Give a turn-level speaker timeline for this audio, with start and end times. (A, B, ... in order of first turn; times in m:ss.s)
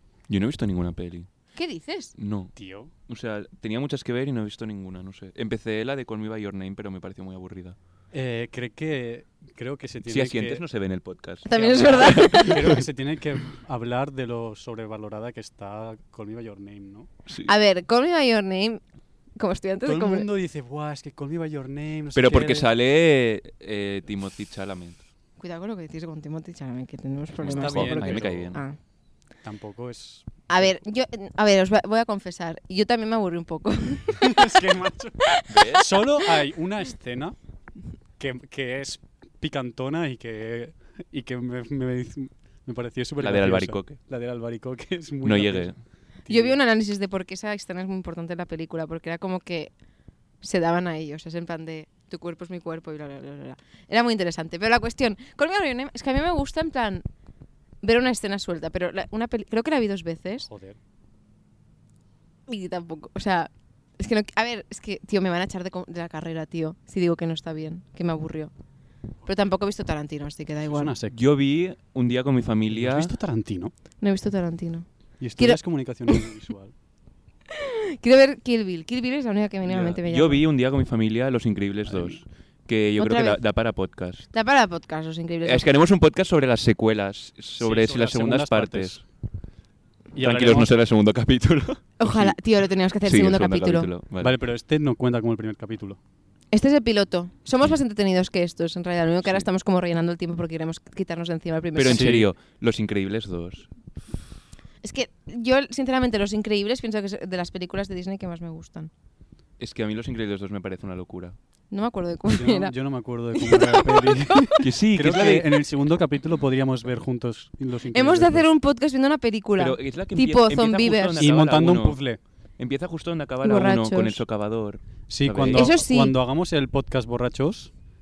0:00.3-0:01.3 A
0:01.5-0:02.1 B
0:02.2-0:02.5 A
0:02.5-0:02.9 C
0:03.1-0:07.8 A
0:08.1-0:10.6 C
0:10.0-0:12.8 A
0:11.4-0:12.7 B
0:11.5-0:17.1 C
0:17.5-0:18.8 B
0:19.4-0:20.3 B
0:19.8-0:22.7 C
0:22.1-0:25.0 A
0:25.4-0:28.8 B
0:27.4-0:28.6 A
0:27.5-0:28.5 C
0:29.4-0:30.7 C
0:30.5-0:34.6 B
0:34.2-0:37.4 C
0:35.3-0:35.8 B
0:35.5-0:35.9 A
0:38.2-0:45.7 C
0:43.2-0:44.0 A
0:45.2-0:45.8 A
0:46.2-0:49.7 B
0:46.3-0:46.6 C
0:50.4-0:57.0 B
0:57.8-1:00.5 B
1:00.4-1:00.8 C
1:02.5-1:08.5 B
1:09.2-1:10.9 B
1:10.6-1:11.2 C
1:11.0-1:13.1 A
1:12.7-1:13.7 C
1:14.0-1:16.2 B
1:15.2-1:16.7 C
1:17.6-1:20.4 B
1:19.6-1:24.3 A
1:21.8-1:22.2 C
1:23.0-1:23.4 B
1:24.3-1:25.7 B
1:25.4-1:29.0 A
1:27.6-1:29.0 C
1:30.1-1:30.7 C
1:30.2-1:32.4 A
1:32.0-1:33.9 B
1:33.0-1:34.3 A
1:34.2-1:36.0 C
1:36.5-1:42.2 B
1:41.7-1:43.7 A
1:41.8-1:42.3 C
1:44.8-1:48.9 B
1:49.6-1:51.4 A
1:51.7-1:52.7 B
1:52.3-1:58.5 C
1:53.3-1:54.5 B
1:54.6-1:55.5 A
1:57.9-2:01.3 B
1:59.6-2:02.0 A
2:01.1-2:02.2 C
2:02.6-2:05.7 A
2:03.4-2:04.2 B
2:05.1-2:07.7 C
2:05.5-2:06.2 B